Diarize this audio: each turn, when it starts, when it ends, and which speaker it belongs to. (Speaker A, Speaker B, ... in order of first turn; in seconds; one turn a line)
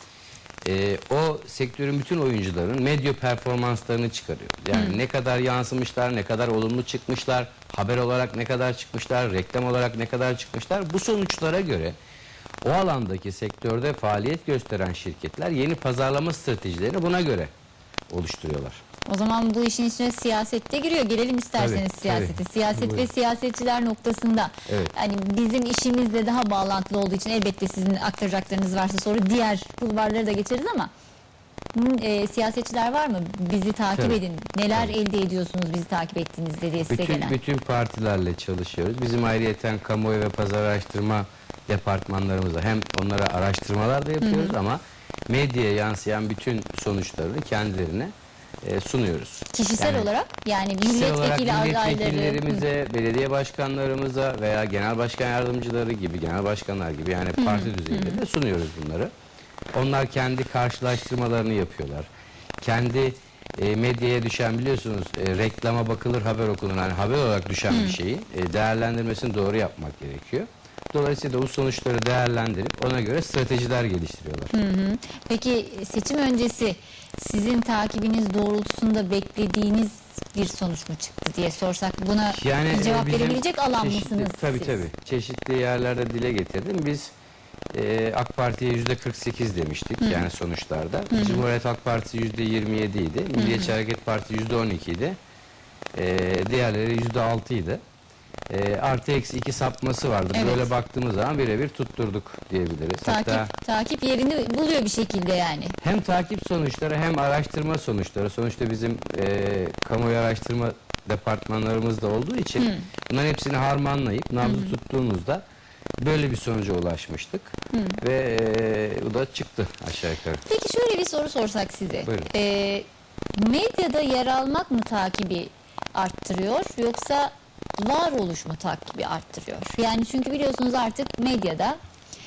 Speaker A: 0.6-11.9
Speaker B: 4.7-5.0
Speaker A: 12.6-17.5
Speaker A: 18.1-18.8
Speaker B: 19.1-30.9
Speaker A: 21.6-23.1
Speaker A: 24.7-24.9
Speaker B: 31.7-37.3
Speaker A: 34.0-34.2
Speaker A: 36.9-48.1
Speaker B: 44.2-44.5
Speaker A: 48.6-50.1
Speaker B: 49.5-52.6
Speaker A: 50.8-59.1
Speaker B: 57.4-58.2
Speaker A: 59.7-62.1
Speaker A: 62.6-74.5
Speaker B: 67.7-68.0
Speaker B: 74.5-84.8
Speaker A: 82.3-87.1
Speaker A: 87.7-95.2
Speaker B: 90.0-90.3
Speaker B: 91.1-91.4
Speaker B: 93.3-93.7
Speaker A: 95.9-97.8
Speaker A: 98.5-103.5
Speaker B: 100.3-100.7
Speaker B: 103.0-105.8
Speaker A: 105.8-115.4
Speaker B: 112.6-112.9
Speaker B: 114.4-114.7
Speaker A: 116.0-120.4
Speaker B: 117.7-118.0
Speaker B: 120.4-131.8
Speaker A: 122.0-122.3